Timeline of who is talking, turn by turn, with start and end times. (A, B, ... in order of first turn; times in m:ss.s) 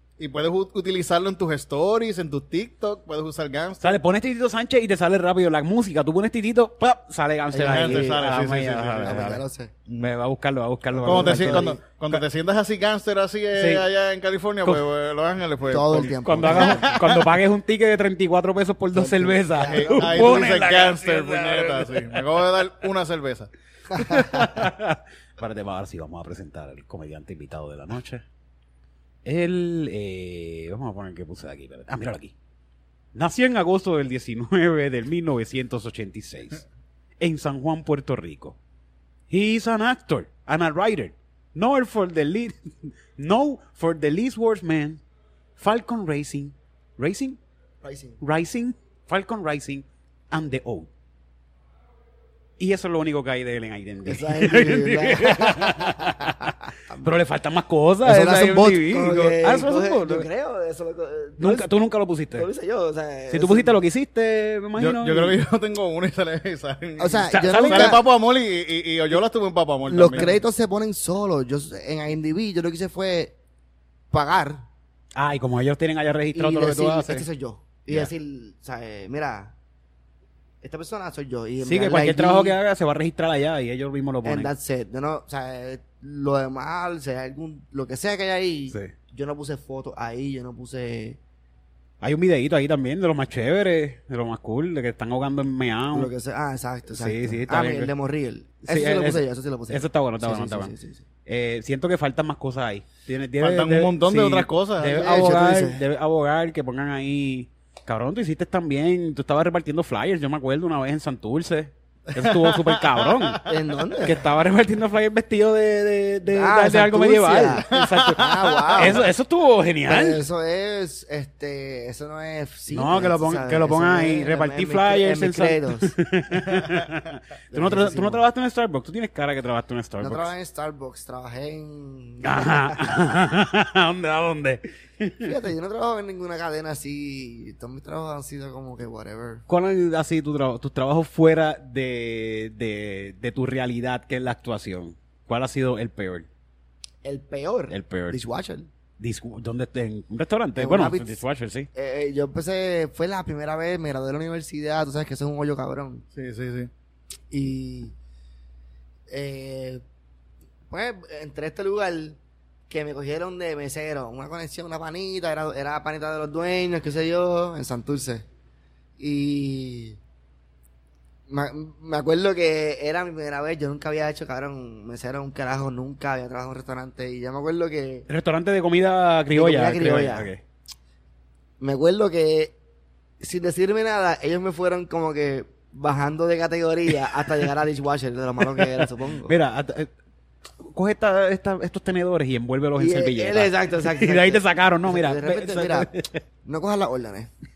0:00.2-0:04.0 A
0:03.8-0:09.4 B
0:07.5-0:08.3 C
0:07.6-0:09.2 A
0:09.0-0:09.7 C
0:10.0-0:12.2 B
0:10.9-0:11.8 C
0:11.0-0:17.3 A
0:13.5-0:13.8 B
0:15.7-0:16.9 C
0:16.2-0:22.4 B
0:18.9-0:20.5 C
0:19.6-0:23.5 A
0:23.9-0:28.2 B
0:24.0-0:24.2 C
0:29.2-0:32.3 B
0:33.1-0:36.6 B
0:37.2-0:38.6 B
0:39.3-0:45.0 B
0:45.6-0:47.4 B
0:47.8-0:48.2 C
0:48.2-0:50.9 B
0:52.6-1:00.3 B
0:54.0-0:56.3 C
0:58.0-1:01.7 C
1:01.4-1:02.5 B
1:02.3-1:03.8 C
1:03.3-1:05.4 B
1:04.8-1:10.3 A
1:07.0-1:08.0 C
1:07.3-1:08.0 B
1:09.9-1:13.3 C
1:10.1-1:10.4 B
1:14.1-1:14.6 C
1:15.2-1:17.2 B
1:16.3-1:19.5 C
1:20.6-1:22.6 C
1:21.6-1:24.5 B
1:24.2-1:31.2 C
1:32.0-1:36.1 B
1:35.9-1:41.0 C
1:36.9-1:37.9 B
1:38.6-1:40.7 B
1:41.2-1:53.4 B
1:43.4-1:45.1 A
1:44.8-1:45.8 C
1:52.1-1:53.6 A
1:53.4-1:54.2 C
1:54.0-2:00.2 B
1:56.3-1:59.1 C
1:57.7-1:59.0 A
1:59.8-2:05.9 C
2:02.7-2:10.3 B
2:07.5-2:08.2 C
2:10.0-2:13.0 C
2:12.2-2:15.3 B
2:15.2-2:19.4 C
2:19.5-2:26.3 B
2:27.0-2:28.7 C
2:27.7-2:28.2 B
2:29.0-2:31.7 B
2:30.6-2:31.2 C
2:31.7-2:36.0 C
2:36.1-2:36.7 A
2:37.3-2:37.9 C
2:39.1-2:39.8 C
2:40.7-2:42.2 C
2:42.7-2:48.2 C
2:49.0-2:50.0 C
2:51.3-2:58.1 C
2:58.1-3:00.4 B
2:59.3-3:00.3 C
3:01.6-3:02.5 C
3:03.2-3:09.3 C
3:08.5-3:09.9 B
3:10.6-3:16.2 B
3:12.8-3:15.9 C
3:16.4-3:17.3 C